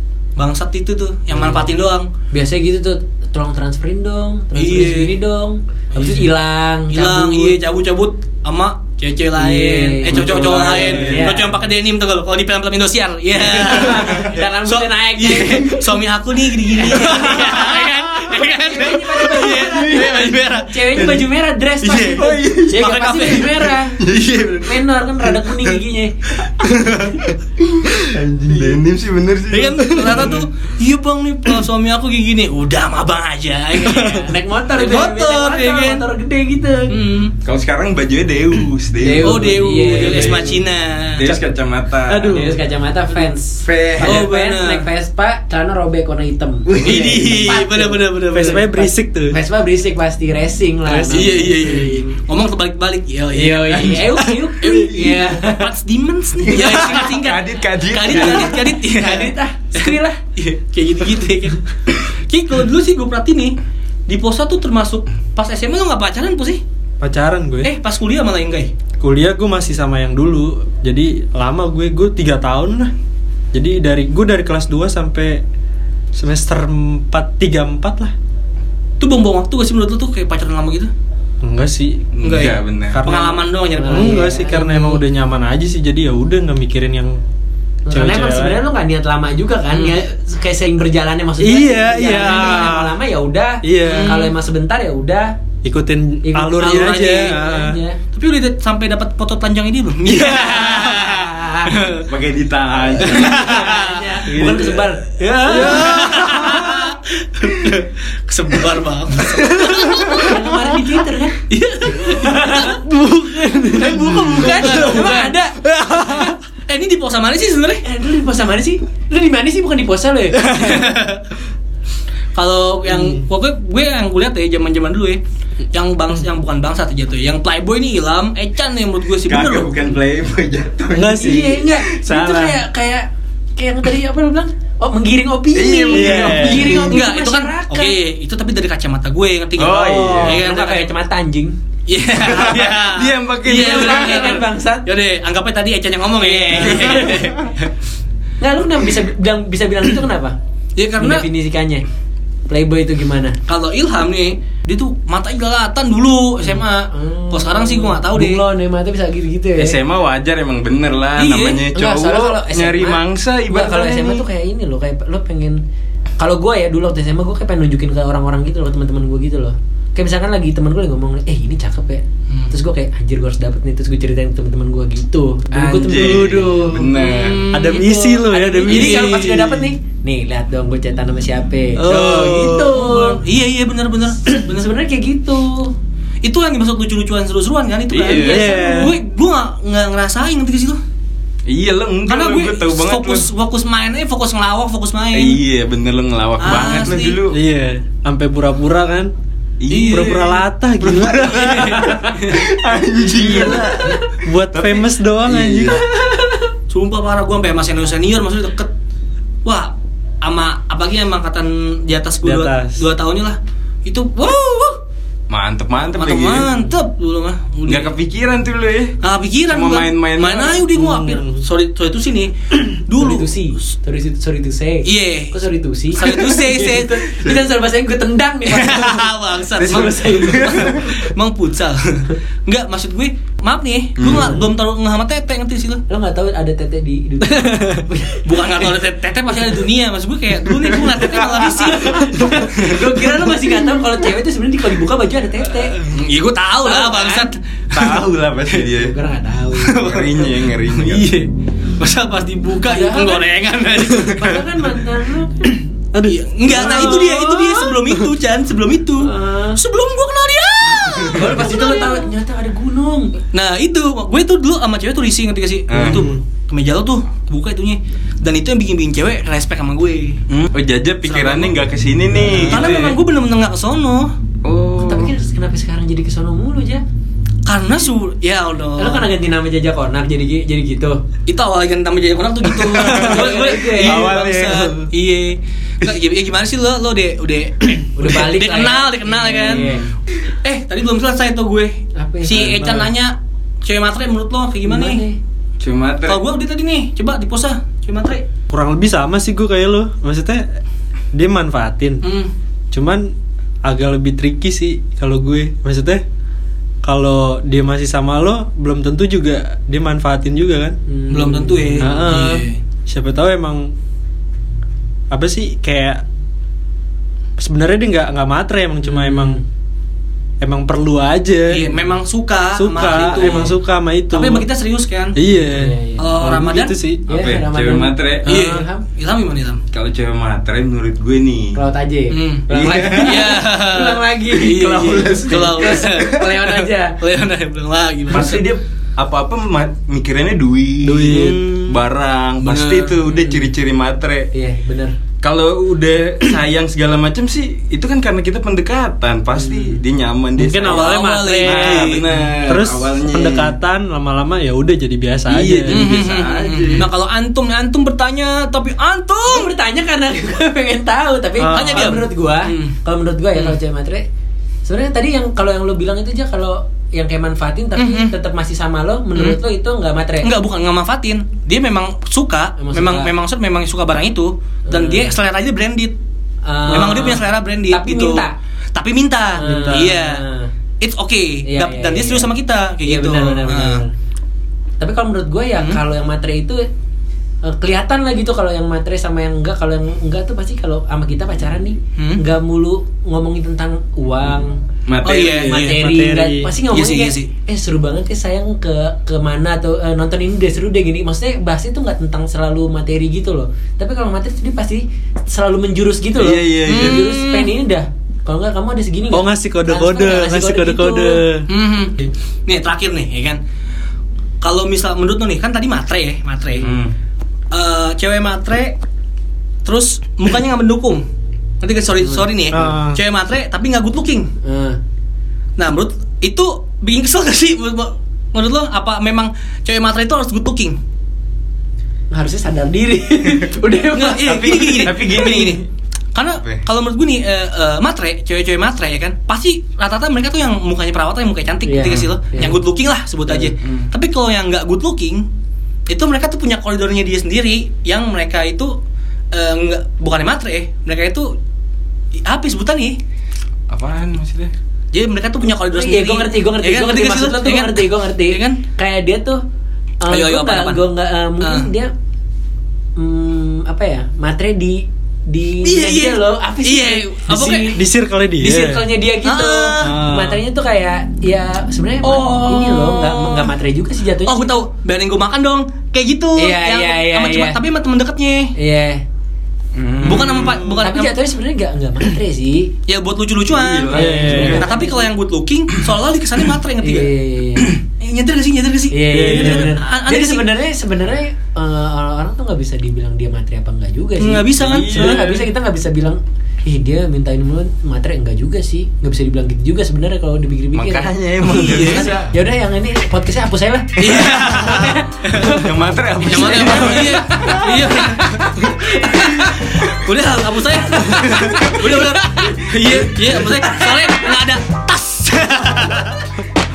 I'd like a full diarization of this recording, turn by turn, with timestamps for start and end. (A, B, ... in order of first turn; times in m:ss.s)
0:00.4-0:02.1 A
0:01.3-0:01.7 B
0:02.3-0:07.6 B
0:04.5-0:05.2 A
0:05.9-0:06.3 A
0:06.9-0:21.3 A
0:09.4-0:11.5 B
0:10.5-0:11.4 C
0:10.9-0:11.3 D
0:13.3-0:16.0 B
0:16.8-0:20.0 B
0:19.6-0:20.4 D
0:20.6-0:26.4 B
0:21.8-0:23.7 A
0:22.0-0:25.8 D
0:26.6-0:30.4 D
0:29.5-0:36.0 A
0:33.8-0:37.0 B
0:36.9-0:37.3 A
0:37.4-0:39.5 D
0:39.0-0:40.7 B
0:39.2-0:41.3 A
0:39.5-0:40.2 C
0:40.1-0:40.4 D
0:41.1-0:42.5 D
0:42.1-0:42.7 C
0:42.3-0:52.1 B
0:43.6-0:44.2 D
0:44.0-0:44.9 A
0:46.6-0:47.4 D
0:46.8-0:48.6 A
0:48.3-0:49.4 C
0:50.8-0:52.0 C
0:51.1-1:03.6 A
0:53.3-0:55.7 B
0:56.4-0:58.7 D
0:58.0-1:00.2 B
1:04.1-1:06.6 A
1:07.0-1:07.7 C
1:07.6-1:08.7 A
1:09.0-1:12.9 C
1:13.5-1:15.4 C
1:16.1-1:18.1 C
1:19.0-1:20.9 A
1:21.4-1:22.1 C
1:22.1-1:23.0 D
1:22.2-1:24.3 A
1:23.0-1:27.2 C
1:23.7-1:25.0 B
1:27.8-1:35.4 B
1:27.9-1:28.6 C
1:29.7-1:30.0 A
1:31.4-1:33.0 C
1:33.6-1:34.2 C
1:33.8-1:34.3 A
1:35.6-1:37.8 C
1:36.2-1:38.0 B
1:36.6-1:37.4 A
1:38.1-1:42.1 A
1:40.4-1:41.7 B
1:42.1-1:43.4 D
1:43.0-1:44.7 A
1:43.0-1:46.1 B
1:44.3-1:44.8 D
1:45.2-1:46.9 C
1:45.4-1:50.3 A
1:49.9-1:51.4 B
1:51.5-1:52.8 A
1:52.1-1:52.8 B
1:52.6-1:56.3 C
1:53.7-1:56.3 B
1:54.0-1:55.4 A
1:56.2-1:57.8 A
1:57.8-2:00.6 B
2:00.4-2:01.3 A
2:02.3-2:05.2 A
2:02.8-2:03.2 C
2:05.7-2:09.9 A
2:09.2-2:12.4 D
2:10.9-2:11.6 C
2:11.2-2:18.0 B
2:12.3-2:12.6 C
2:15.5-2:17.0 D
2:15.9-2:16.8 C
2:16.6-2:20.9 A
2:19.6-2:20.4 D
2:19.8-2:21.6 B
2:21.9-2:27.7 A
2:22.1-2:24.3 D
2:23.4-2:24.8 B
2:26.1-2:27.3 B
2:28.4-2:30.4 B
2:30.8-2:31.3 A
2:31.0-2:31.8 B
2:32.5-2:33.4 B
2:33.5-2:38.4 A
2:36.4-2:39.8 B
2:39.6-2:44.3 D
2:41.1-2:41.6 A
2:41.6-2:45.6 B
2:46.2-3:03.2 B
2:55.5-2:57.5 D
2:55.8-2:56.9 C
2:56.9-2:57.8 A
2:57.5-2:59.1 C
2:58.6-2:59.7 A
3:01.8-3:02.8 C
3:02.6-3:04.7 A
3:04.3-3:05.7 B
3:06.2-3:10.8 A
3:07.9-3:08.5 D
3:08.2-3:09.0 C
3:11.4-3:13.3 D
3:12.1-3:15.4 A
3:15.1-3:17.4 D
3:16.4-3:17.2 A
3:17.3-3:19.1 C
3:19.6-3:20.4 D
3:19.7-3:20.2 A
3:19.8-3:22.2 C
3:20.8-3:22.5 A
3:21.0-3:25.8 D
3:23.1-3:25.8 C
3:26.7-3:28.7 A
3:29.4-3:34.8 A
3:32.2-3:32.8 C
3:35.3-3:36.5 D
3:36.0-3:38.0 A
3:37.7-3:39.0 D
3:39.0-3:43.7 A
3:39.5-3:40.7 D
3:40.7-3:41.4 C
3:43.0-3:50.8 B
3:44.8-3:45.4 A
3:45.9-3:47.1 A
3:46.1-3:46.4 D
3:48.4-3:55.8 A
3:49.6-3:51.0 D
3:54.0-3:54.4 D
3:54.0-3:54.4 B
3:55.9-3:58.8 B
3:58.2-4:02.5 A
3:59.3-3:59.6 B
4:00.5-4:01.6 D
4:01.6-4:05.7 B
4:02.5-4:02.8 D
4:05.8-4:08.0 A
4:06.6-4:07.3 B
4:07.7-4:08.9 D
4:08.5-4:09.8 B
4:09.6-4:14.3 A
4:09.8-4:11.1 D
4:12.6-4:13.3 B
4:13.8-4:14.1 D
4:14.1-4:15.7 B
4:15.9-4:22.1 A
4:16.5-4:17.6 C
4:16.5-4:17.7 B
4:19.0-4:19.6 B
4:21.0-4:23.1 B
4:23.3-4:30.2 A
4:25.7-4:26.0 D
4:25.8-4:26.2 C
4:30.3-4:33.0 D
4:31.0-4:31.5 A
4:32.2-4:32.8 B
4:32.4-4:34.1 A
4:34.4-4:35.1 D
4:34.8-4:36.8 B
4:37.4-4:39.1 A
4:38.8-4:41.0 B
4:41.3-4:55.0 A
4:42.5-4:43.3 D
4:42.9-4:44.1 B
4:43.8-4:44.9 D
4:47.9-4:49.8 B
4:52.0-4:52.8 B
4:52.6-4:52.9 C
4:54.6-4:55.2 B
4:55.6-4:56.2 D
4:56.1-4:58.2 A
4:58.5-5:00.4 C
5:01.1-5:02.0 C
5:02.0-5:02.3 A
5:02.7-5:06.0 C
5:06.8-5:10.8 C
5:10.9-5:12.3 B
5:11.1-5:12.6 A
5:11.8-5:13.7 C
5:15.1-5:16.0 C
5:17.4-5:19.4 C
5:18.8-5:19.4 B
5:20.4-5:21.7 C
5:21.5-5:23.6 A
5:22.6-5:24.4 C
5:23.1-5:23.5 B
5:24.1-5:25.2 A
5:25.1-5:27.2 C
5:25.3-5:26.2 B
5:26.0-5:26.8 A
5:27.1-5:28.3 D
5:27.1-5:28.8 B
5:28.2-5:29.6 A
5:28.3-5:28.6 C
5:29.7-5:31.6 D
5:31.5-5:37.0 B
5:32.1-5:38.4 A
5:32.5-5:33.4 D
5:34.5-5:36.2 D
5:38.1-5:44.3 D
5:40.8-5:41.8 C
5:42.4-5:43.2 A
5:44.3-5:44.9 B
5:45.2-5:53.5 D
5:49.4-5:49.8 B
5:50.4-5:55.9 C
5:50.6-5:52.0 A
5:55.3-5:56.9 D
5:55.7-5:59.5 A
5:59.2-6:04.0 B
6:01.4-6:02.0 C
6:01.5-6:02.7 A
6:04.6-6:10.3 B
6:07.8-6:08.1 A
6:10.2-6:15.9 A
6:12.6-6:13.1 B
6:14.7-6:15.2 B
6:16.4-6:18.3 B
6:16.6-6:20.2 A
6:16.7-6:17.0 C
6:19.3-6:20.5 B
6:19.4-6:19.9 C
6:20.8-6:23.8 A
6:21.5-6:22.3 B
6:22.8-6:23.9 B
6:24.8-6:26.6 B
6:25.6-6:25.8 A
6:27.4-6:34.6 B
6:32.0-6:32.2 A
6:34.9-6:35.4 D
6:35.0-6:35.8 A
6:35.3-6:36.5 C
6:35.4-6:51.2 B
6:36.7-6:37.3 A
6:46.1-6:47.1 D
6:46.6-6:47.5 A
6:49.1-6:52.1 C
6:51.5-6:53.4 A
6:54.4-6:56.8 A
6:56.6-6:56.9 D
6:57.5-6:58.8 A
6:59.6-7:01.0 A
7:01.6-7:04.3 A
7:02.0-7:02.7 B
7:02.5-7:03.0 C
7:04.4-7:04.8 B
7:05.6-7:10.8 A
7:12.1-7:15.4 B
7:13.9-7:15.6 A
7:14.2-7:15.6 D
7:16.1-7:25.2 A
7:16.3-7:16.6 D
7:21.6-7:22.6 B
7:23.5-7:23.9 D
7:25.9-7:28.7 A
7:29.3-7:31.3 A
7:32.2-7:33.0 A
7:33.7-7:34.5 D
7:34.9-7:38.6 A
7:35.7-7:39.4 B
7:40.0-7:41.9 B
7:40.1-7:40.8 A
7:41.4-7:41.7 A
7:43.0-7:47.8 B
7:45.6-7:47.8 A
7:47.7-7:48.9 C
7:48.4-7:54.6 B
7:49.2-7:50.0 A
7:49.8-7:50.4 C
7:52.0-7:53.5 A
7:54.2-7:58.5 A
7:56.4-7:57.6 B
7:58.6-7:59.0 B
7:59.7-8:00.6 D
8:00.0-8:01.2 A
8:00.6-8:02.7 B
8:02.9-8:07.1 A
8:03.4-8:04.7 D
8:03.9-8:05.1 B
8:03.9-8:04.7 C
8:06.8-8:07.8 B
8:07.8-8:10.4 A
8:08.9-8:28.4 B
8:09.1-8:09.7 C
8:14.2-8:15.4 A
8:14.5-8:15.4 D
8:20.7-8:22.3 D
8:21.4-8:22.2 A
8:24.0-8:25.7 A
8:25.4-8:27.9 D
8:26.2-8:36.2 A
8:31.0-8:33.4 D